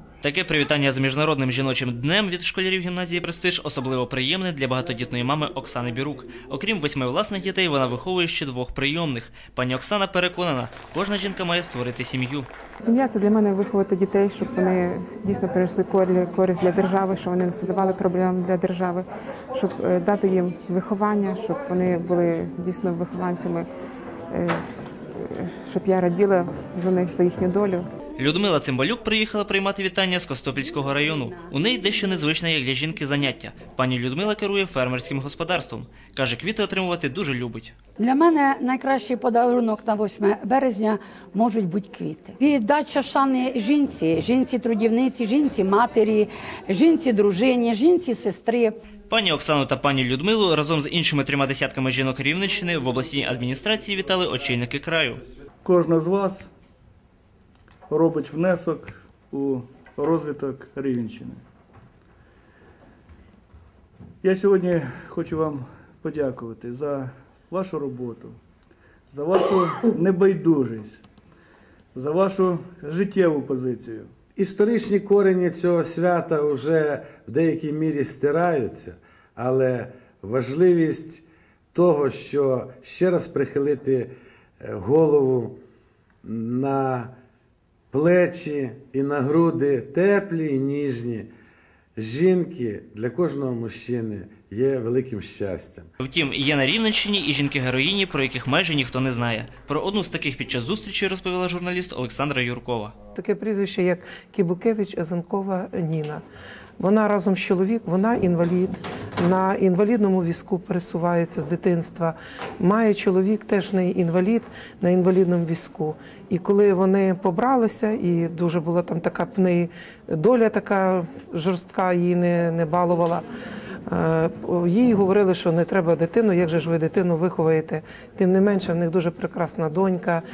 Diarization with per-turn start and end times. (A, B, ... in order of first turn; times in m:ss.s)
0:00.2-0:12.5 A
0:12.8-0:23.7 B
0:24.3-0:27.9 B
0:28.2-0:37.7 A
0:38.0-0:48.8 C
0:49.1-0:55.2 A
0:55.6-0:56.5 D
0:57.9-1:01.4 D
1:04.2-1:08.4 D
1:09.1-1:11.0 D
1:12.0-1:14.1 D
1:14.4-1:25.6 E
1:26.2-1:27.1 E
1:27.9-1:31.3 E
1:32.0-1:35.9 E
1:36.0-1:42.9 A
1:43.1-1:46.2 F
1:46.8-2:03.3 F
2:03.9-2:10.2 F